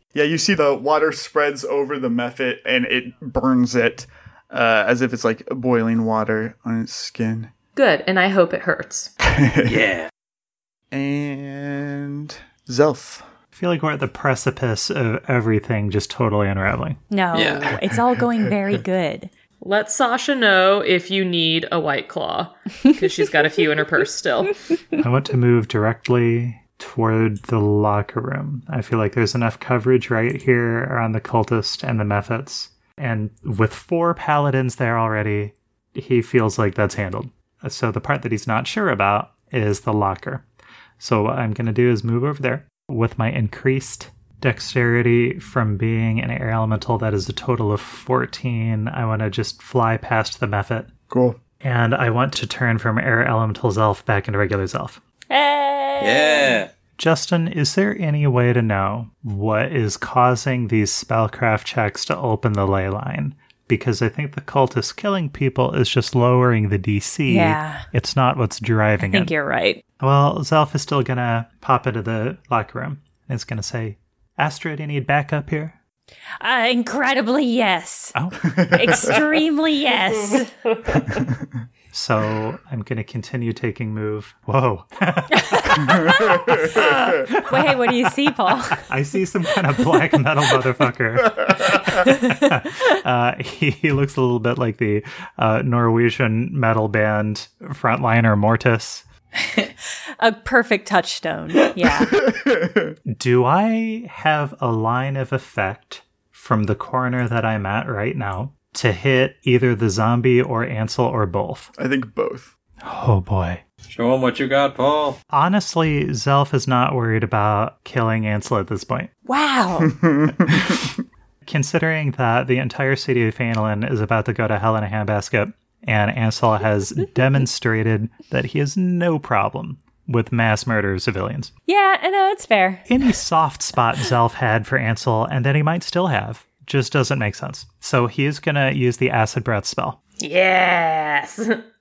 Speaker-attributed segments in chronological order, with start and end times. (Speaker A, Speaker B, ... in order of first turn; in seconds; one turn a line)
Speaker A: 0.1-7.5
Speaker B: 7.8-9.1
Speaker A: 9.2-9.8
Speaker C: 9.7-10.1
Speaker A: 10.9-13.3
Speaker D: 13.5-17.0
Speaker E: 17.1-19.3
Speaker C: 17.3-17.8
Speaker B: 19.6-24.7
Speaker D: 25.0-40.4
Speaker D: 41.0-50.9
Speaker A: 51.1-51.4
Speaker D: 51.6-55.0
Speaker E: 55.3-56.6
Speaker C: 56.0-56.7
Speaker D: 57.0-69.3
Speaker E: 67.3-67.8
Speaker E: 69.0-69.8
Speaker D: 70.0-75.8
Speaker E: 76.4-78.2
Speaker D: 78.1-78.4
Speaker A: 78.4-79.2
Speaker E: 78.7-80.5
Speaker D: 81.9-86.8
Speaker E: 85.4-88.8
Speaker A: 85.8-87.3
Speaker D: 87.3-88.1
Speaker D: 88.8-99.0
Speaker E: 91.8-92.5
Speaker E: 100.2-102.2
Speaker A: 102.0-103.0
Speaker D: 103.1-111.7
Speaker A: 111.8-112.5
Speaker D: 112.8-113.6
Speaker C: 113.8-115.2
Speaker D: 115.3-119.1
Speaker E: 119.3-119.9
Speaker A: 119.8-120.9
Speaker D: 121.4-131.5
Speaker E: 131.7-132.8
Speaker D: 132.9-140.0
Speaker B: 140.2-141.6